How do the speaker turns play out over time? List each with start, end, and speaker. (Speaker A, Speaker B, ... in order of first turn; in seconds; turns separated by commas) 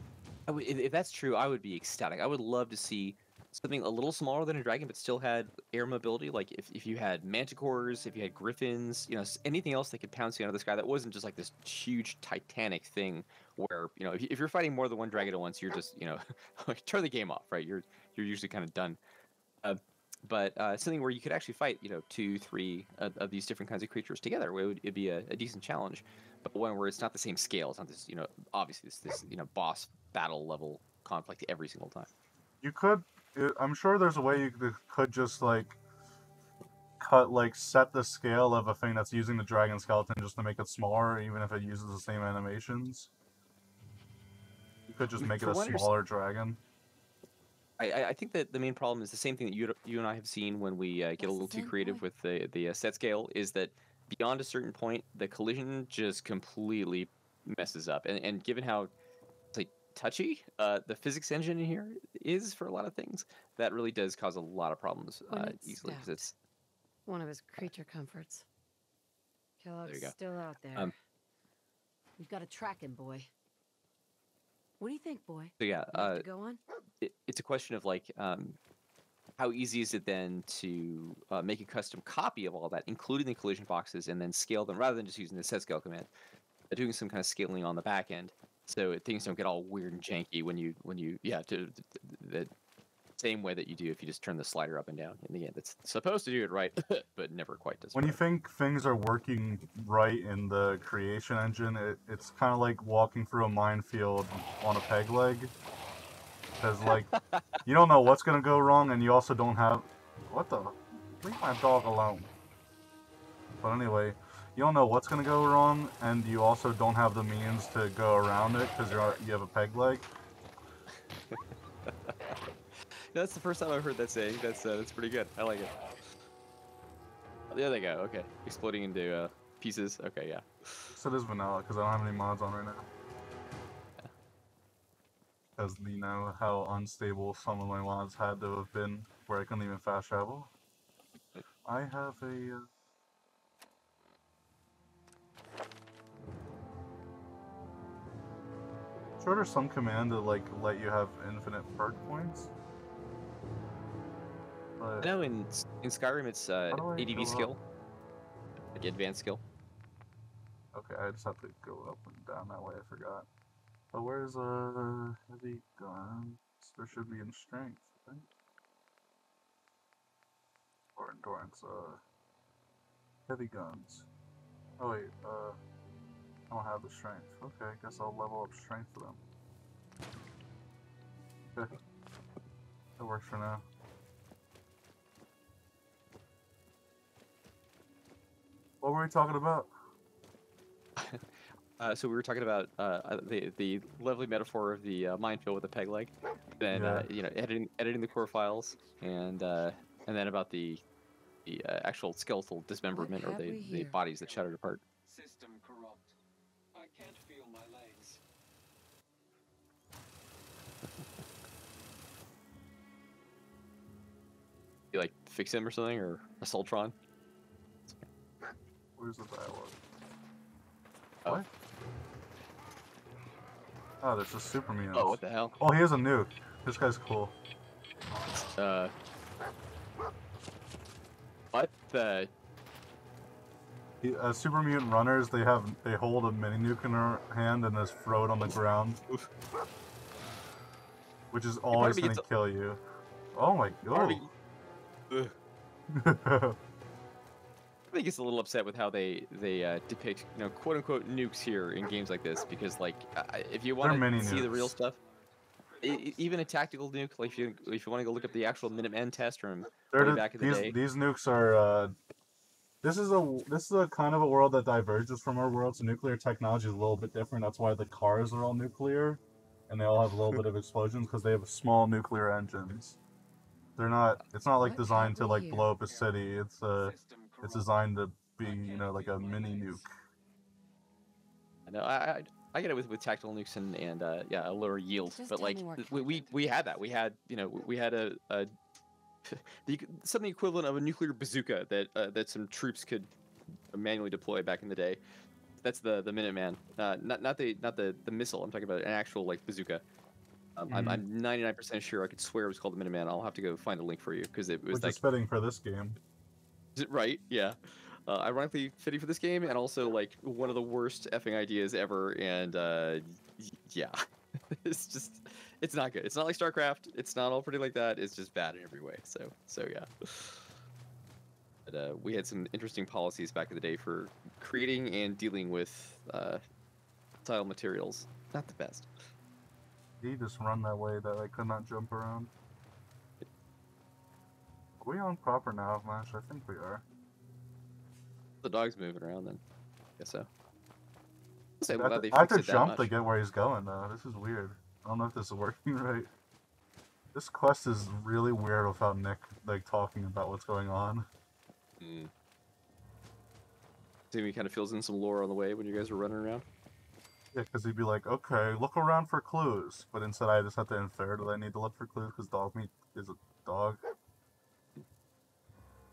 Speaker A: 0.5-19.0, Speaker A: 19.6-32.1, Speaker B: 32.6-35.8, Speaker B: 37.0-43.1, Speaker B: 44.9-46.6, Speaker A: 45.2-45.9, Speaker A: 47.8-58.9, Speaker C: 51.2-52.0, Speaker A: 59.5-66.3, Speaker C: 65.3-66.3, Speaker C: 67.1-68.5, Speaker C: 69.6-70.9, Speaker A: 69.8-70.2, Speaker C: 72.2-73.3, Speaker C: 74.8-76.6, Speaker A: 75.6-76.3, Speaker A: 77.0-78.6, Speaker A: 79.4-86.1, Speaker A: 86.7-92.5, Speaker A: 93.2-98.2, Speaker B: 97.9-105.5, Speaker B: 106.6-107.1, Speaker A: 106.9-107.6, Speaker B: 107.6-112.3, Speaker B: 113.6-120.1, Speaker A: 120.9-122.4, Speaker A: 123.1-125.7, Speaker A: 127.5-130.9, Speaker B: 130.9-132.9, Speaker B: 135.6-140.5, Speaker B: 141.7-142.7, Speaker B: 149.2-152.5, Speaker B: 154.8-155.1, Speaker A: 155.0-157.6, Speaker B: 156.7-157.5, Speaker A: 158.7-159.4, Speaker B: 160.7-163.3, Speaker B: 163.9-168.3, Speaker B: 171.0-172.0, Speaker B: 173.3-174.1, Speaker B: 174.8-175.6, Speaker B: 176.5-179.2, Speaker B: 183.0-183.7, Speaker B: 188.8-189.7, Speaker A: 191.0-191.3, Speaker A: 191.8-200.8, Speaker B: 196.7-197.1, Speaker D: 198.1-200.0, Speaker A: 201.5-204.8, Speaker C: 202.9-204.0, Speaker D: 205.1-206.2, Speaker D: 206.8-208.2, Speaker A: 214.9-216.9, Speaker A: 217.9-218.5, Speaker B: 219.0-219.8, Speaker B: 224.0-227.3, Speaker A: 224.9-225.6, Speaker A: 228.3-228.9, Speaker A: 231.5-232.3, Speaker B: 234.0-239.0, Speaker B: 241.3-242.8, Speaker A: 241.7-242.2, Speaker B: 243.3-244.3, Speaker A: 243.9-244.3, Speaker B: 245.9-246.6, Speaker A: 247.9-255.0, Speaker B: 253.8-254.8, Speaker D: 254.8-259.2, Speaker A: 255.8-260.8, Speaker B: 259.9-262.0, Speaker B: 262.8-273.0, Speaker B: 273.8-279.9, Speaker C: 274.6-275.8, Speaker D: 276.8-277.7, Speaker D: 278.4-279.8, Speaker A: 281.7-288.5, Speaker C: 285.1-286.2, Speaker A: 289.3-293.1, Speaker A: 293.7-295.0, Speaker A: 295.6-299.8, Speaker A: 300.6-305.0, Speaker B: 300.7-301.0, Speaker B: 304.7-306.0, Speaker A: 306.8-314.0, Speaker A: 314.5-320.5, Speaker A: 321.7-326.4, Speaker A: 327.2-328.9, Speaker B: 330.0-332.3, Speaker B: 334.8-336.8, Speaker A: 338.4-339.4, Speaker A: 340.0-340.3, Speaker A: 341.6-342.9, Speaker B: 341.7-346.1, Speaker B: 347.1-351.1, Speaker A: 351.8-352.1, Speaker A: 354.1-356.4, Speaker B: 357.3-363.8